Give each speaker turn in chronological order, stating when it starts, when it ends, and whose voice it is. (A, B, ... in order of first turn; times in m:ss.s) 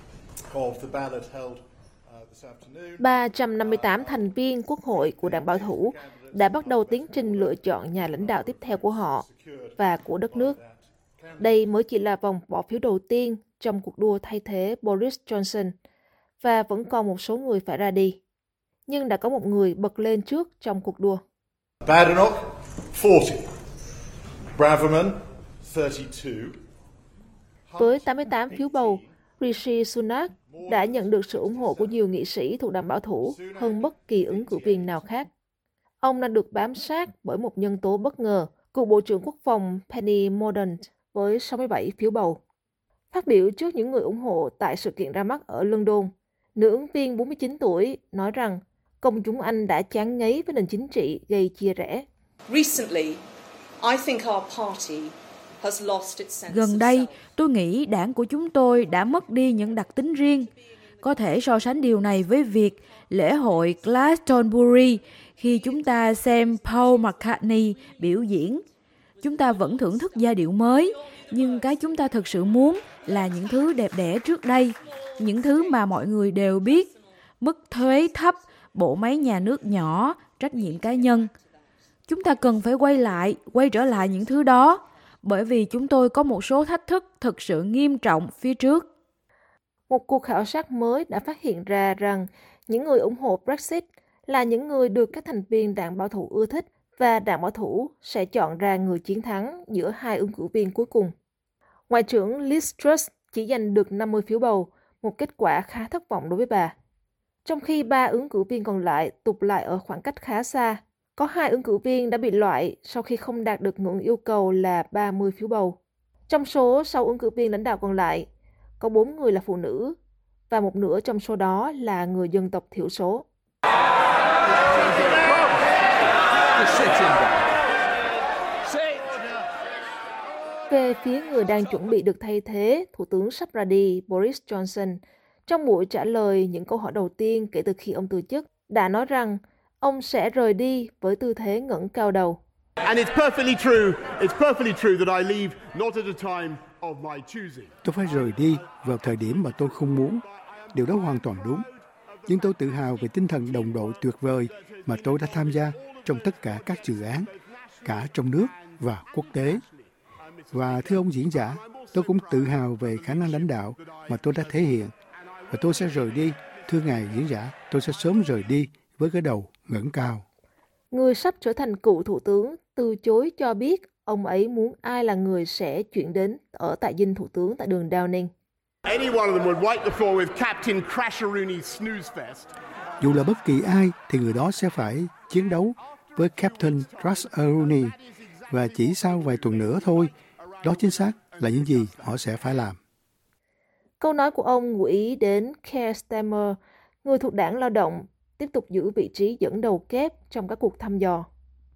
0:00.5-0:04.3 A
0:03.0-0:09.2 B
0:04.8-0:11.6 A
0:09.8-0:10.6 B
0:11.4-0:15.7 B
0:16.4-0:18.2 B
0:18.9-0:21.2 B
0:21.8-0:23.5 A
0:24.6-0:26.6 A
0:27.7-0:29.1 A
0:27.8-0:35.3 B
0:30.4-0:32.0 A
0:33.2-0:35.0 A
0:36.0-0:42.4 B
0:43.1-0:52.1 B
0:52.5-0:53.2 C
0:53.8-0:57.1 C
0:56.5-1:00.5 D
1:01.0-1:08.6 D
1:09.2-1:21.3 D
1:22.1-1:28.9 D
1:29.9-1:41.1 B
1:41.9-1:46.7 B
1:47.4-1:55.8 B
1:56.3-1:58.3 B
1:58.8-2:00.0 B
2:00.5-2:03.2 B
2:10.7-2:22.4 B
2:22.8-2:27.7 E
2:27.8-2:31.7 F
2:28.2-2:47.2 A
2:32.3-2:37.3 F
2:37.8-2:39.6 F
2:40.5-2:44.9 F
2:45.5-2:50.2 F
2:50.9-2:58.3 B
2:58.9-3:02.5 E
3:03.0-3:08.0 F
3:06.1-3:08.0 A
3:08.5-3:10.1 F
3:08.8-3:12.4 A
3:10.6-3:12.8 F
3:14.0-3:21.3 B